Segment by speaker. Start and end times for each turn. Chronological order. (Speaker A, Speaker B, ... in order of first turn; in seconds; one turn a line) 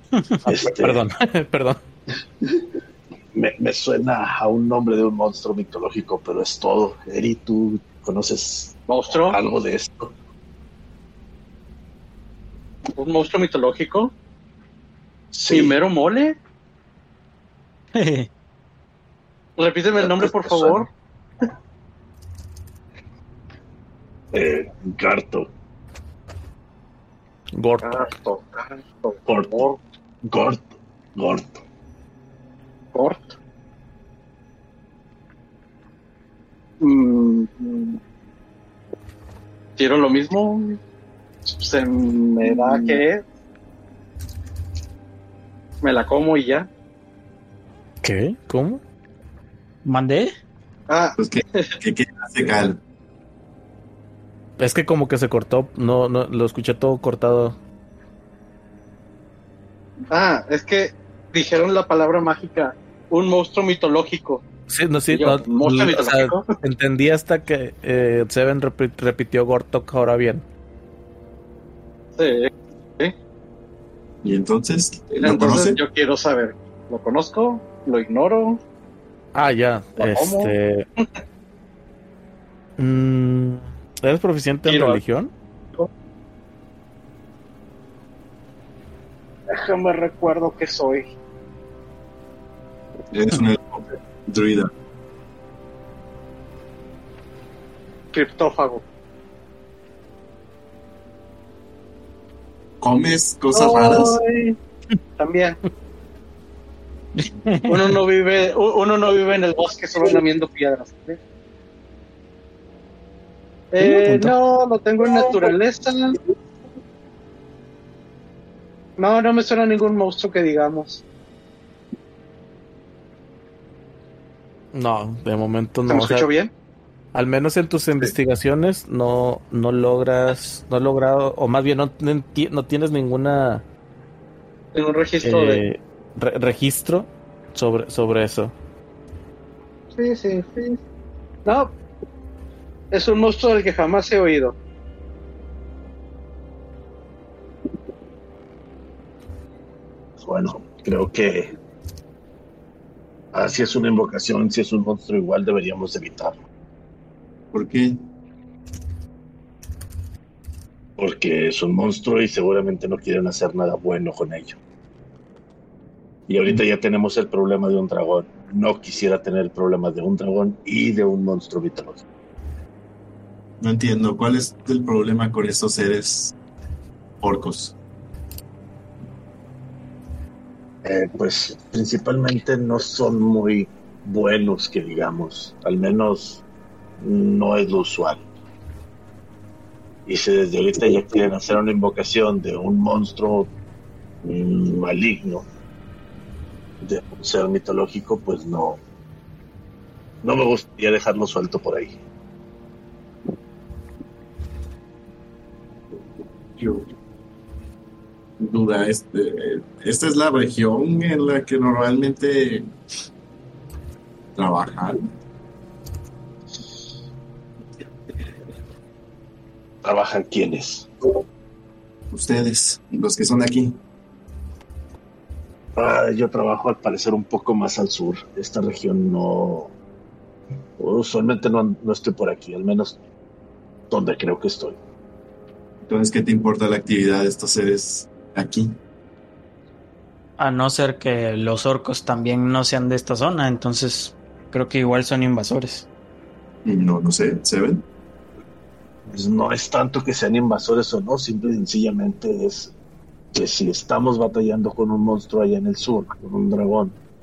Speaker A: 0.4-1.0
Speaker B: 0.5-1.8
Speaker A: 3.3-10.1
Speaker C: 8.9-9.4
Speaker C: 12.9-14.1
Speaker A: 15.3-15.8
Speaker C: 15.5-16.4
Speaker D: 17.9-18.3
Speaker C: 19.6-20.9
Speaker A: 19.9-20.9
Speaker A: 24.3-25.5
Speaker B: 27.5-28.1
Speaker C: 27.8-29.8
Speaker A: 29.2-31.6
Speaker C: 32.9-33.4
Speaker C: 36.8-38.0
Speaker C: 39.8-40.8
Speaker C: 41.5-43.2
Speaker C: 45.8-46.7
Speaker B: 48.0-48.8
Speaker D: 49.8-50.3
Speaker C: 50.9-51.8
Speaker E: 51.2-52.8
Speaker B: 54.6-57.6
Speaker C: 60.1-64.4
Speaker B: 64.7-70.4
Speaker C: 65.1-66.5
Speaker C: 72.2-73.1
Speaker E: 74.2-75.8
Speaker C: 75.2-78.6
Speaker B: 79.3-80.8
Speaker C: 80.0-81.1
Speaker B: 82.8-85.3
Speaker C: 84.7-85.0
Speaker C: 89.5-91.1
Speaker E: 93.1-94.7
Speaker C: 98.1-98.8
Speaker E: 102.8-104.2
Speaker C: 103.5-104.6
Speaker C: 105.2-105.6
Speaker D: 107.1-108.0
Speaker C: 107.7-111.2
Speaker C: 113.7-116.2
Speaker D: 113.8-114.3
Speaker C: 119.0-121.0
Speaker B: 124.7-126.3
Speaker C: 125.9-126.5
Speaker B: 127.1-133.6
Speaker C: 134.7-135.6
Speaker B: 135.2-138.5
Speaker C: 139.9-140.8
Speaker C: 141.4-141.7
Speaker C: 142.9-144.6
Speaker A: 150.2-151.5
Speaker A: 153.3-156.4
Speaker E: 157.5-158.0
Speaker A: 161.0-164.6
Speaker A: 166.3-172.0
Speaker E: 173.6-176.3
Speaker E: 177.2-177.7
Speaker A: 180.8-186.4
Speaker A: 187.0-188.2
Speaker A: 190.1-193.5
Speaker A: 194.2-195.5
Speaker A: 196.8-198.8
Speaker A: 200.2-202.0
Speaker E: 206.6-206.9
Speaker E: 208.4-212.7
Speaker E: 214.3-215.1
Speaker A: 219.8-220.9
Speaker E: 222.1-223.8
Speaker A: 225.7-229.7
Speaker A: 230.8-233.0
Speaker A: 233.9-234.8
Speaker E: 235.8-238.8
Speaker D: 240.4-245.9
Speaker E: 246.6-247.8
Speaker A: 249.0-252.7
Speaker A: 253.3-257.0